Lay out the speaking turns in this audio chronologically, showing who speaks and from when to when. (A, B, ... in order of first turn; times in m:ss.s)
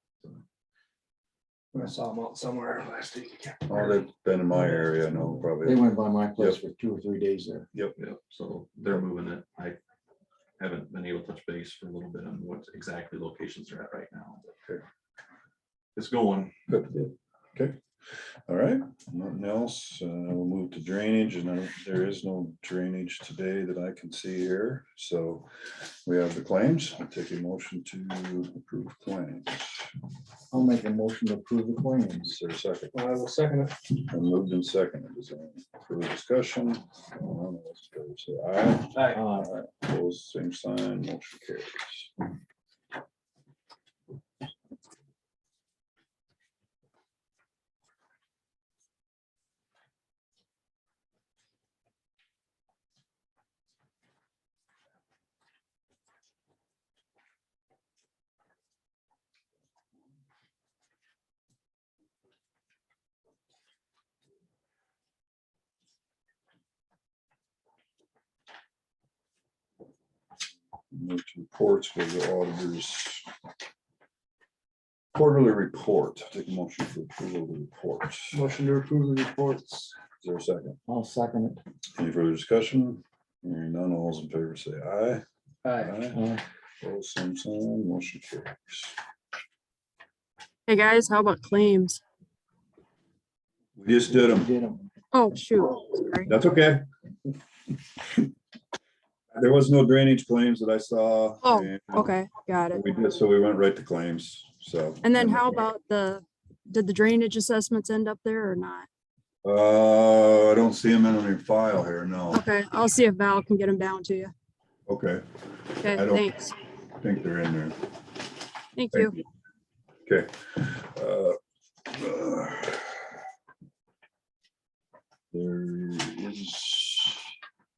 0:01.7-0:04.0 A
0:03.7-0:05.8 B
0:05.2-0:07.7 C
0:08.0-0:09.8 D
0:10.6-0:14.5 D
0:16.0-0:16.5 D
0:16.7-0:17.8 B
0:18.5-0:29.9 B
0:30.5-0:32.3 C
0:32.2-0:33.0 B
0:32.9-0:33.8 A
0:34.0-0:42.1 B
0:39.0-0:39.2 A
0:39.1-0:39.5 C
1:10.9-1:13.3 B
1:15.2-1:18.5 B
1:18.3-1:20.0 A
1:20.2-1:20.8 B
1:20.9-1:21.6 C
1:22.0-1:25.2 B
1:25.6-1:26.0 A
1:25.8-1:26.2 B
1:26.1-1:26.4 C
1:26.8-1:29.0 B
1:30.7-1:32.0 E
1:33.8-1:34.5 B
1:34.3-1:34.9 C
1:35.1-1:36.3 E
1:36.2-1:36.9 B
1:39.3-1:42.1 B
1:41.4-1:42.9 E
1:42.7-1:45.7 B
1:45.0-1:48.9 E
1:49.4-1:52.4 B
1:52.3-1:54.3 E
1:54.9-1:55.2 B
1:55.8-1:56.5 E
1:55.8-1:56.2 B
1:57.0-1:57.8 B
1:58.8-1:59.2 E
1:58.9-1:59.2 B
2:00.1-2:01.4 B
2:01.9-2:03.1 B
2:05.3-2:07.3 B